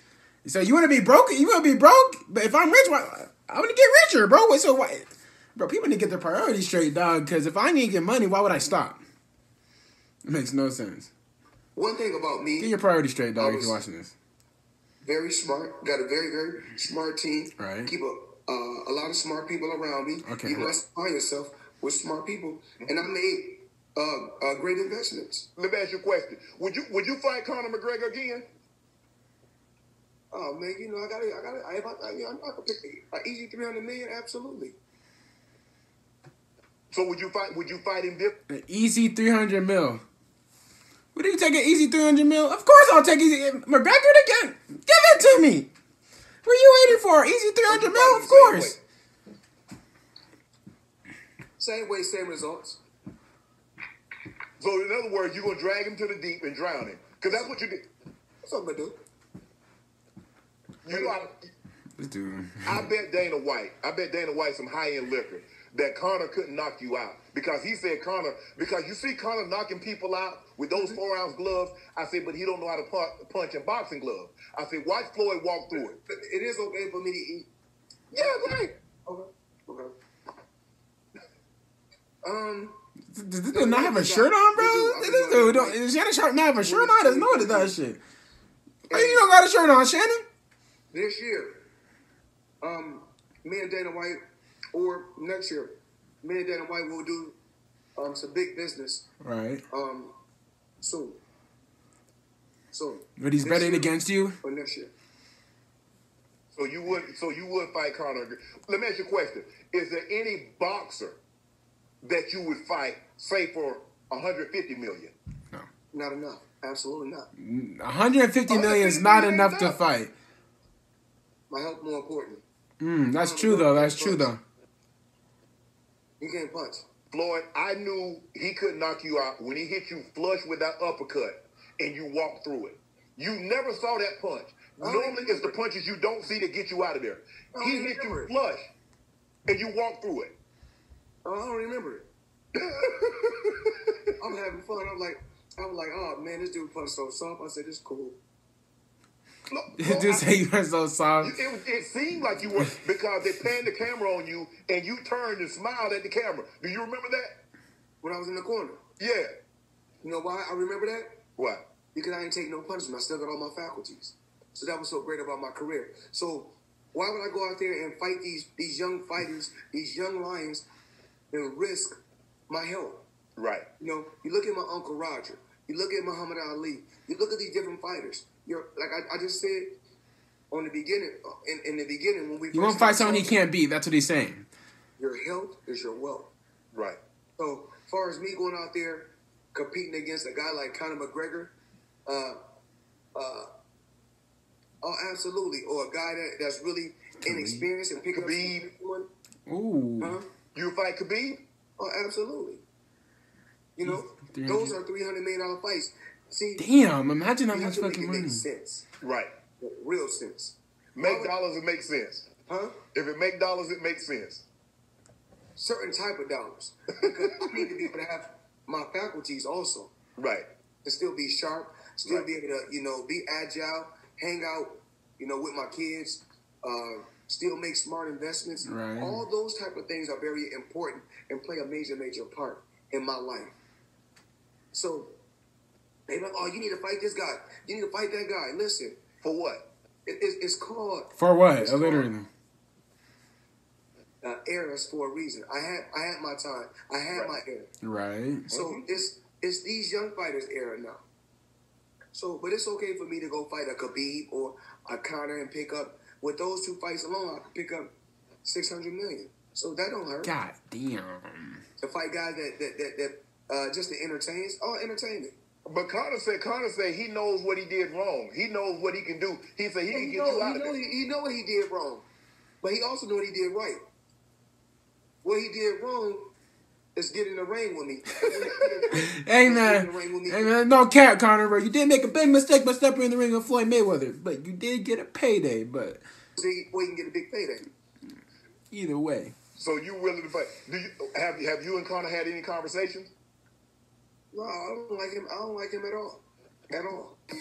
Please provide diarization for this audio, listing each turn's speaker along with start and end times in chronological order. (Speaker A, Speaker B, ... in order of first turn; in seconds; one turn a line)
Speaker A: 0.4-9.0
Speaker A: 10.2-11.1
Speaker B: 11.8-12.8
Speaker A: 12.6-14.1
Speaker B: 13.4-13.8
Speaker B: 15.0-25.5
Speaker A: 17.6-17.9
Speaker A: 20.2-20.8
Speaker C: 25.6-28.5
Speaker B: 30.3-34.8
Speaker C: 36.9-38.4
Speaker A: 38.5-40.0
Speaker A: 41.1-45.7
Speaker A: 46.4-48.8
Speaker C: 47.7-48.8
Speaker B: 51.6-52.8
Speaker C: 54.6-57.9
Speaker B: 58.4-59.0
Speaker C: 60.8-61.5
Speaker B: 60.9-61.2
Speaker A: 62.0-62.9
Speaker C: 62.6-76.0
Speaker B: 70.7-71.0
Speaker B: 75.7-77.5
Speaker C: 78.1-78.7
Speaker B: 78.2-80.0
Speaker B: 82.2-82.8
Speaker A: 83.1-88.0
Speaker B: 83.5-85.8
Speaker B: 86.6-87.8
Speaker B: 88.9-89.3
Speaker A: 88.9-90.2
Speaker B: 90.9-91.6
Speaker B: 92.6-94.2
Speaker B: 94.7-97.4
Speaker B: 98.0-99.1
Speaker A: 99.2-99.6
Speaker B: 99.7-100.1
Speaker B: 100.8-101.2
Speaker B: 102.7-104.9
Speaker A: 103.2-104.4
Speaker C: 106.5-111.2
Speaker C: 112.0-115.1
Speaker B: 115.9-117.3
Speaker A: 117.4-120.1
Speaker C: 118.5-119.8
Speaker B: 121.5-122.4
Speaker A: 122.8-124.4
Speaker B: 123.2-124.3
Speaker B: 126.2-126.9
Speaker C: 127.1-138.7
Speaker B: 134.8-135.6
Speaker B: 137.5-138.3
Speaker C: 139.5-140.4
Speaker B: 141.2-142.1
Speaker C: 142.6-143.9
Speaker B: 144.2-148.2
Speaker C: 149.5-150.3
Speaker A: 149.8-151.4
Speaker C: 151.2-157.4
Speaker B: 158.0-158.8
Speaker C: 159.0-159.3
Speaker B: 160.0-161.2
Speaker C: 161.4-161.7
Speaker B: 161.9-170.7
Speaker B: 171.3-173.1
Speaker C: 173.4-173.7
Speaker B: 173.8-179.8
Speaker B: 180.5-183.4
Speaker A: 182.5-184.5
Speaker B: 185.0-186.3
Speaker C: 186.7-187.0
Speaker B: 187.4-191.6
Speaker B: 192.1-192.4
Speaker B: 193.2-193.5
Speaker B: 194.8-199.1
Speaker A: 197.2-197.7
Speaker C: 198.1-198.7
Speaker A: 199.5-200.2
Speaker B: 200.0-200.3
Speaker C: 200.6-201.4
Speaker B: 201.8-202.6
Speaker B: 203.8-206.7
Speaker A: 203.8-204.8
Speaker A: 206.6-208.5
Speaker B: 207.5-208.9
Speaker C: 209.0-209.3
Speaker B: 209.6-211.3
Speaker C: 211.0-212.3
Speaker B: 212.5-212.8
Speaker C: 212.9-214.4
Speaker B: 215.6-219.9
Speaker C: 217.0-217.7
Speaker C: 220.2-220.5
Speaker B: 220.8-233.6
Speaker C: 222.0-222.3
Speaker A: 228.7-229.2
Speaker B: 234.7-235.1
Speaker B: 236.1-239.0
Speaker C: 239.2-239.7
Speaker B: 240.1-242.1
Speaker A: 241.2-242.3
Speaker B: 244.2-247.7
Speaker C: 247.1-247.4
Speaker A: 247.8-248.5
Speaker C: 248.5-248.8
Speaker B: 248.5-251.0
Speaker B: 252.1-257.9
Speaker B: 258.4-260.3
Speaker A: 260.2-261.6
Speaker B: 261.8-265.4
Speaker C: 265.7-270.7
Speaker B: 269.9-272.1
Speaker B: 272.6-273.8
Speaker B: 275.2-276.3
Speaker B: 276.9-280.6
Speaker C: 278.4-278.8
Speaker A: 279.0-286.0
Speaker B: 286.4-287.7
Speaker A: 288.7-289.3
Speaker C: 289.6-293.1
Speaker B: 294.3-297.2